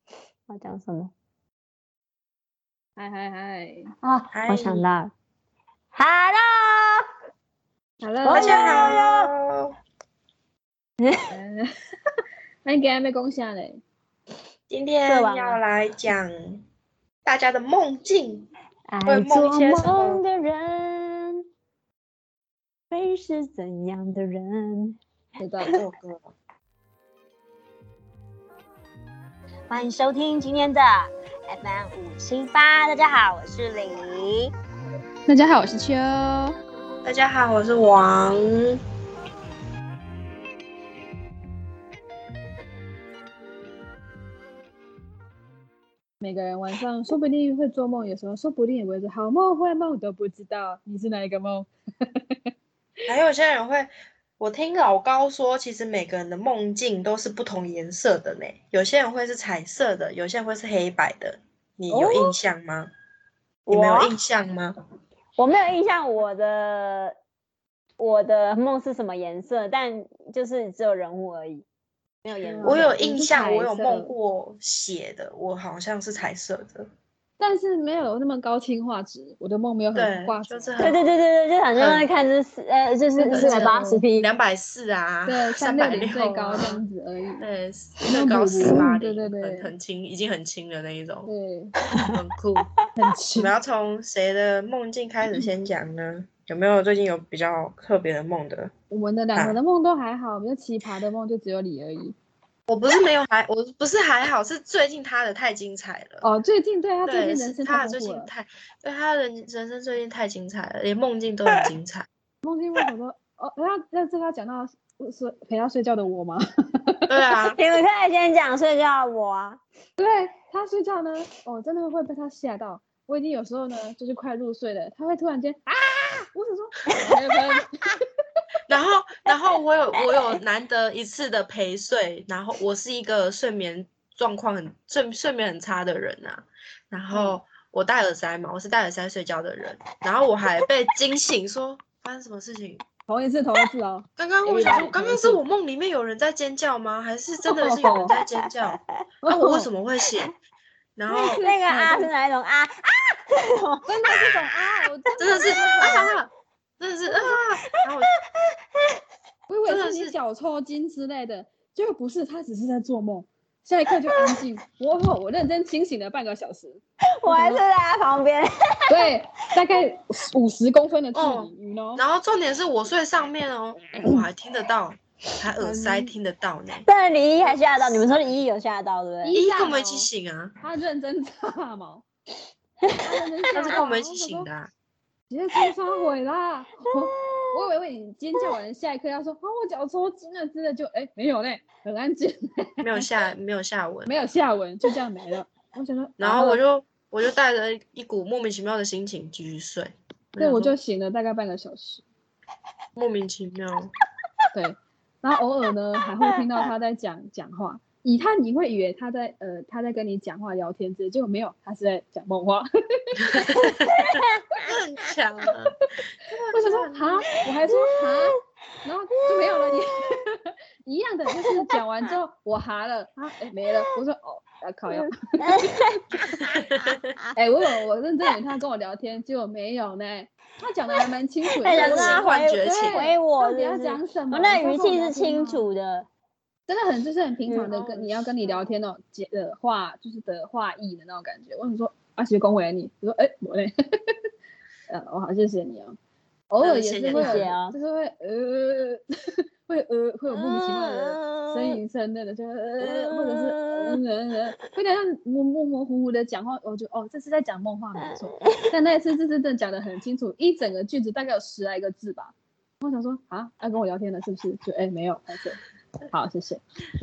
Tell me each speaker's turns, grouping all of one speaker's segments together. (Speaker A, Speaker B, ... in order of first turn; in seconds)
Speaker A: 0.5-1.1, 4.0-5.1, 5.9-7.1, 8.2-9.3, 11.0-11.3, 15.1-15.6, 18.9-21.4, 22.9-25.0, 29.7-34.5, 63.7-64.1, 65.4-67.2, 68.0-71.7, 72.2-73.0, 80.8-84.3, 117.5-119.6, 151.4-154.3, 164.1-164.4, 167.2-169.1, 176.9-179.4, 186.9-187.5, 213.9-214.4, 217.7-218.3, 219.3-219.7, 221.5-221.7, 224.9-227.3, 231.6-236.1, 237.5-237.7, 247.1-247.8, 250.3-251.8, 252.8-254.0, 258.0-258.7
Speaker B: 3.0-3.9, 8.0-9.0, 11.3-11.7, 12.7-13.8, 25.4-25.8, 35.3-36.6, 46.2-52.4, 61.9-62.4, 72.4-74.1, 77.4-80.9, 83.2-84.0, 85.3-87.5, 88.1-89.7, 91.3-91.8, 93.0-93.5, 98.9-102.2, 106.2-108.3, 112.4-117.2, 120.0-128.0, 137.1-137.4, 143.1-145.4, 147.5-148.2, 149.2-149.7, 151.1-152.1, 153.9-156.2, 159.5-167.6, 168.9-172.0, 174.0-174.3, 175.6-176.1, 179.2-180.1, 180.6-182.0, 183.0-184.5, 185.3-193.1, 194.1-196.6, 200.4-202.0, 204.5-213.6, 216.5-225.8, 227.3-235.6, 236.7-244.2, 244.9-246.0, 246.5-265.6, 266.1-266.6
Speaker C: 4.3-4.8, 8.3-9.7, 14.7-16.6, 17.2-18.5, 19.1-20.2, 25.7-26.3, 37.0-38.8, 53.1-62.9, 63.7-64.8, 72.6-76.9, 80.0-81.0, 81.8-82.1, 83.3-86.8, 87.4-91.3, 92.0-92.7, 93.4-98.7, 102.7-106.2, 107.0-112.1, 117.1-117.6, 128.7-142.8, 144.2-150.3, 151.0-151.4, 155.2-158.1, 159.7-160.1, 171.1-176.9, 179.3-180.6, 183.5-184.7, 192.8-194.1, 196.2-200.8, 203.0-203.9, 213.3-217.3, 226.4-227.1, 231.7-233.1, 237.7-238.6, 246.6-247.5